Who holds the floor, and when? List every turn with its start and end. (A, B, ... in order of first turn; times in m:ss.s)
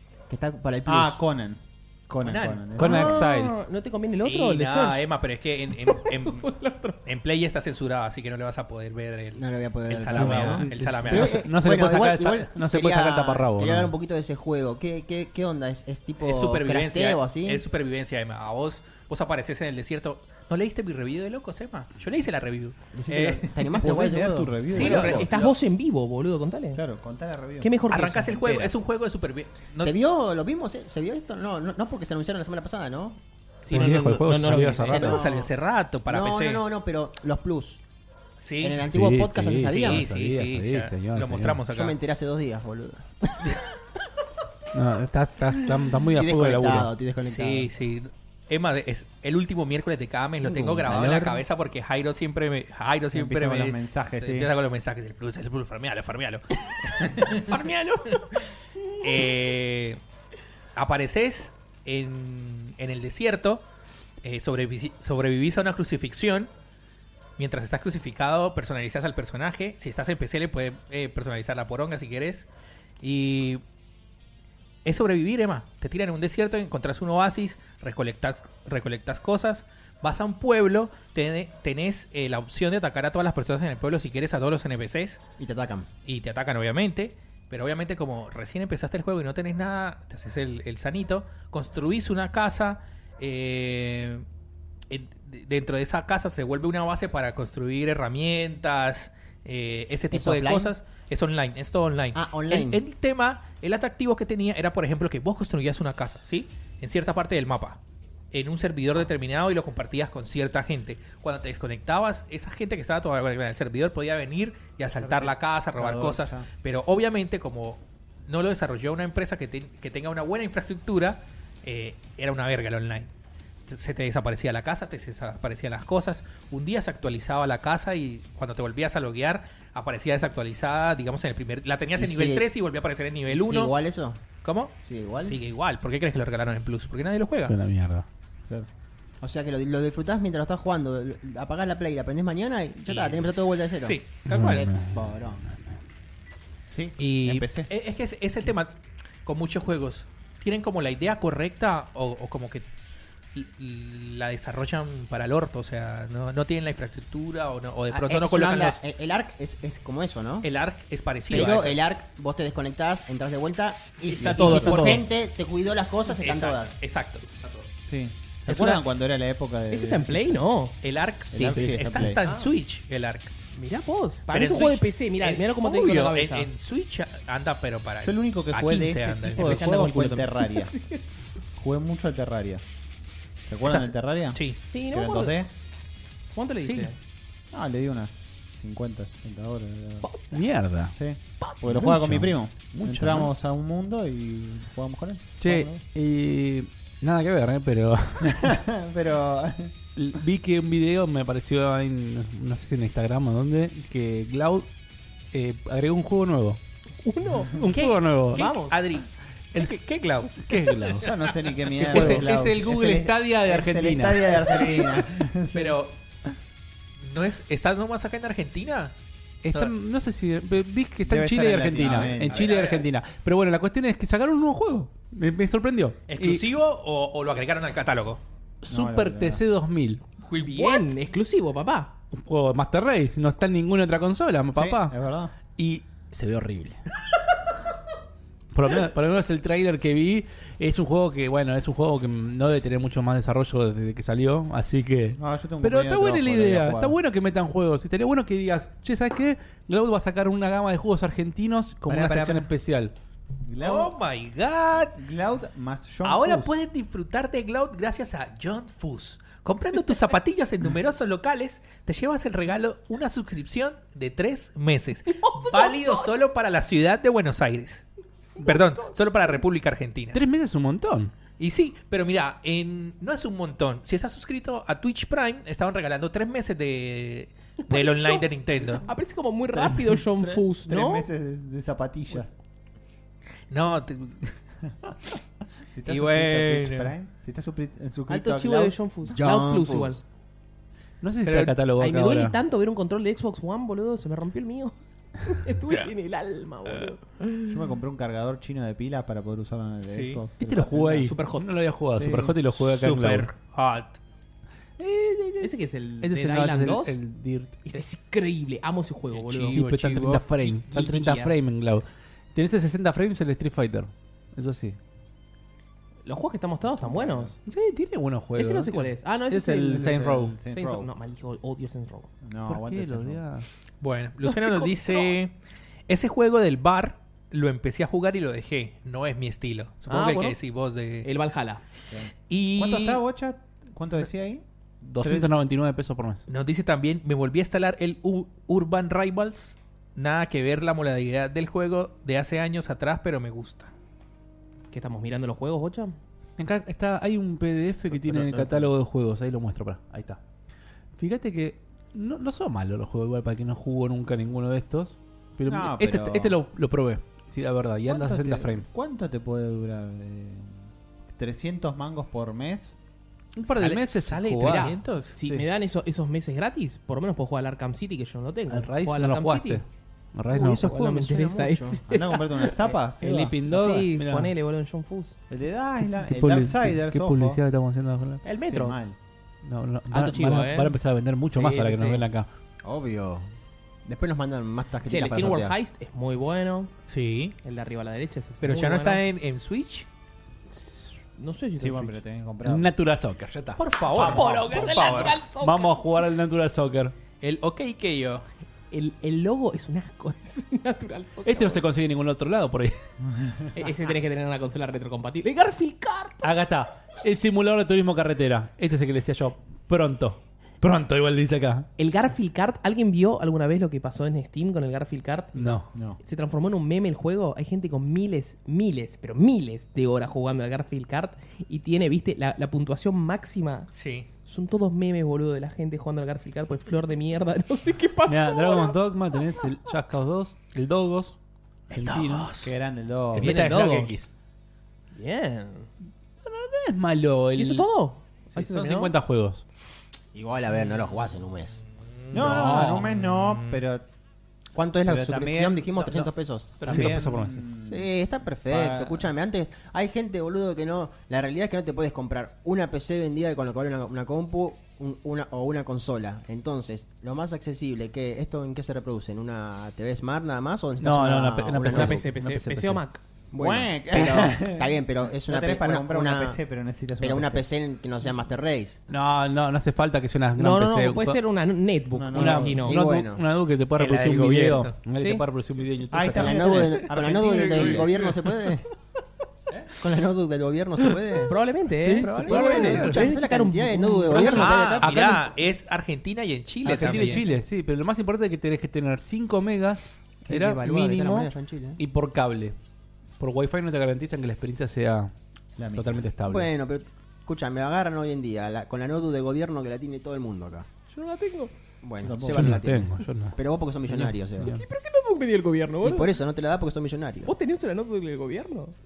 0:00.3-0:01.2 A
0:00.8-0:03.2 B
0:02.2-0:02.7 C
0:02.7-0:03.6 D
0:02.8-0:05.0 E
0:04.2-0:06.5 C
0:05.8-0:07.0 E
0:07.0-0:11.4 C
0:09.3-0:17.6 A
0:10.2-0:13.9 D
0:16.2-0:23.6 C
0:22.9-0:25.2 A
0:23.6-0:25.5 B
0:24.7-0:25.5 C
0:24.8-0:26.8 E
0:26.7-0:28.7 B
0:27.6-0:28.6 E
0:27.9-0:29.9 C
0:29.8-0:33.2 A
0:33.6-0:35.2 E
0:33.7-0:35.2 D
0:34.7-0:35.5 A
0:34.9-0:36.6 C
0:36.1-0:37.8 A
0:38.4-0:38.8 C
0:38.6-0:40.1 A
0:38.8-0:41.6 D
0:39.6-0:42.0 C
0:41.7-0:43.7 A
0:44.7-0:46.9 D
0:45.9-0:47.7 A
0:47.2-0:57.6 C
0:50.4-0:51.4 A
0:53.1-0:54.5 B
0:57.5-0:58.2 E
0:59.0-1:00.0 C
1:00.8-1:03.6 C
1:04.2-1:06.5 C
1:07.4-1:12.5 C
1:13.0-1:13.6 C
1:14.8-1:25.2 C
1:25.4-1:25.9 A
1:26.0-1:34.2 C
1:34.9-1:47.8 C
1:40.1-1:40.7 A
1:42.1-1:42.8 A
1:48.3-2:13.7 C
1:54.9-1:56.5 B
2:12.0-2:12.4 A
2:13.3-2:14.2 A
2:14.4-2:17.6 C
2:14.8-2:15.4 A
2:17.5-2:18.0 D
2:19.2-2:25.4 A
2:22.8-2:24.7 C
2:24.3-2:25.0 D
2:26.7-2:27.7 B
2:27.0-2:32.6 C
2:33.3-2:38.8 C
2:37.9-2:40.5 A
2:40.4-2:41.8 C
2:41.3-2:46.7 A
2:44.1-2:45.0 C
2:44.1-2:45.0 E
2:44.2-2:44.9 B
2:45.7-2:47.4 C
2:47.8-2:50.4 B
2:48.5-2:48.8 C
2:49.7-2:50.7 E
2:50.8-2:53.3 C
2:51.3-2:52.2 B
2:51.3-2:52.2 A
2:52.2-2:52.5 E
2:53.5-2:56.5 E
2:54.3-2:59.8 C
2:58.0-3:00.7 B
2:59.3-3:01.0 E
3:01.6-3:02.6 B
3:03.5-3:05.5 B
3:03.6-3:04.6 C
3:04.6-3:05.4 E
3:06.3-3:07.0 E
3:07.5-3:10.1 B
3:10.0-3:10.4 E
3:10.3-3:11.0 D
3:11.0-3:15.8 B
3:11.6-3:13.3 D
3:15.4-3:18.5 D
3:18.2-3:19.7 B
3:19.9-3:24.7 D
3:25.3-3:26.6 D
3:27.0-3:27.6 E
3:27.5-3:28.4 D
3:27.7-3:32.3 C
3:28.3-3:28.8 E
3:29.5-3:29.8 D
3:30.4-3:31.1 D
3:31.0-3:35.8 B
3:31.8-3:34.6 D
3:34.5-3:36.0 C
3:37.0-3:38.9 C
3:39.4-3:46.4 D
3:41.0-3:42.5 B
3:41.9-3:42.8 C
3:46.1-3:48.2 C
3:48.6-3:50.0 D
3:48.7-3:49.4 B
3:50.2-3:50.9 C
3:50.5-3:51.9 E
3:52.1-3:56.8 D
3:54.6-3:55.3 B
3:58.5-4:12.9 D
4:05.2-4:07.0 B
4:11.9-4:12.4 B
4:13.4-4:14.0 B
4:13.6-4:15.0 C
4:14.8-4:16.5 B
4:16.0-4:27.8 C
4:25.1-4:26.1 E
4:28.4-4:28.9 E
4:28.4-4:30.2 C
4:30.1-4:31.1 D
4:31.4-4:38.8 C
4:37.6-4:41.1 E
4:40.2-4:42.3 B
4:43.5-4:44.4 C
4:45.7-4:48.8 B
4:45.9-4:46.9 C
4:48.1-4:50.0 E
4:49.1-4:50.0 A
4:51.0-4:52.4 D
4:51.2-4:51.6 C
4:51.8-4:57.0 E
4:57.5-5:01.1 B
4:59.9-5:00.2 C
5:00.4-5:03.3 D
5:00.9-5:01.5 E
5:01.9-5:02.4 B
5:02.6-5:04.0 C
5:04.8-5:07.8 D
5:05.4-5:07.0 E
5:07.6-5:09.6 E
5:09.1-5:11.2 C
5:09.5-5:14.8 D
5:10.7-5:11.3 E
5:16.0-5:17.4 E
5:16.7-5:17.4 B
5:17.4-5:20.3 D
5:18.4-5:22.1 E
5:19.7-5:20.9 B
5:22.2-5:23.2 B
5:22.5-5:23.4 D
5:23.8-5:25.3 C
5:24.2-5:25.1 E
5:25.9-5:31.1 C
5:29.9-5:30.4 E
5:31.0-5:31.6 E
5:31.9-5:34.4 B
5:32.3-5:33.0 C
5:34.8-5:36.2 D
5:35.0-5:35.3 B
5:36.3-5:43.7 C
5:44.7-5:46.0 E
5:46.4-5:50.2 D
5:48.1-5:48.4 A
5:51.0-5:58.6 D
5:55.4-5:56.4 B
5:57.8-6:02.7 B
6:03.3-6:05.4 D
6:03.4-6:05.1 C
6:04.4-6:09.6 E
6:08.5-6:09.6 D
6:10.1-6:11.6 D
6:10.3-6:12.7 E
6:11.9-6:13.4 B
6:13.0-6:14.3 D
6:13.4-6:15.2 E
6:15.3-6:17.4 B
6:16.0-6:18.2 D
6:18.2-6:18.8 E
6:18.5-6:19.0 B
6:19.4-6:22.3 D
6:19.9-6:20.8 E
6:21.3-6:22.0 E
6:22.6-6:23.2 A
6:23.8-6:25.6 A
6:24.8-6:26.7 E
6:26.9-6:27.4 C
6:27.4-6:29.0 E
6:28.4-6:29.9 C
6:30.5-6:32.0 E
6:31.6-6:32.7 B
6:32.4-6:36.9 D
6:33.6-6:35.2 C
6:34.0-6:35.8 E
6:37.2-6:38.2 C
6:38.7-6:41.6 E
6:41.2-6:42.8 D
6:43.5-6:46.3 E
6:46.2-6:51.7 D
6:51.8-7:03.7 E
6:55.3-6:55.7 D
6:55.7-6:56.0 B
7:03.7-7:04.1 C
7:04.2-7:08.8 E
7:08.1-7:11.2 D
7:11.7-7:12.3 D
7:11.7-7:12.5 C
7:12.4-7:13.4 B
7:13.1-7:14.1 D
7:13.2-7:14.0 E
7:14.9-7:15.7 E
7:16.2-7:17.7 D
7:17.4-7:18.9 E
7:18.3-7:19.4 D
7:20.1-7:21.6 A
7:22.0-7:23.6 C
7:22.1-7:23.8 B
7:22.2-7:22.8 E
7:24.5-7:26.8 A
7:24.8-7:26.1 B
7:26.6-7:27.9 B
7:26.6-7:27.4 D
7:26.7-7:26.9 C
7:27.6-7:42.0 A
7:28.4-7:29.1 B
7:40.8-7:42.8 D
7:41.6-7:43.0 E
7:43.3-7:46.4 A
7:43.4-7:47.4 B
7:47.0-7:48.8 A
7:48.9-7:51.2 D
7:50.4-7:52.8 E
7:51.9-7:52.7 B
7:52.1-7:56.6 D
7:52.6-7:53.2 A
7:53.8-7:54.8 C
7:54.9-7:55.2 E
7:55.8-7:58.1 B
7:56.1-7:58.7 A
7:57.5-7:58.1 C
7:59.8-8:01.4 A
8:01.2-8:04.9 E
8:01.8-8:03.1 D
8:02.0-8:05.0 A
8:04.1-8:07.2 C
8:04.2-8:05.2 D
8:06.6-8:12.6 D
8:06.9-8:07.2 E
8:10.2-8:11.8 A
8:13.2-8:15.1 D
8:15.6-8:16.1 B
8:15.7-8:16.5 D
8:16.2-8:20.7 A
8:20.9-8:21.5 E
8:21.8-8:24.5 A
8:22.0-8:22.6 B
8:22.2-8:23.4 D
8:23.9-8:24.6 D
8:24.4-8:26.1 E
8:25.8-8:27.3 A
8:27.2-8:28.7 E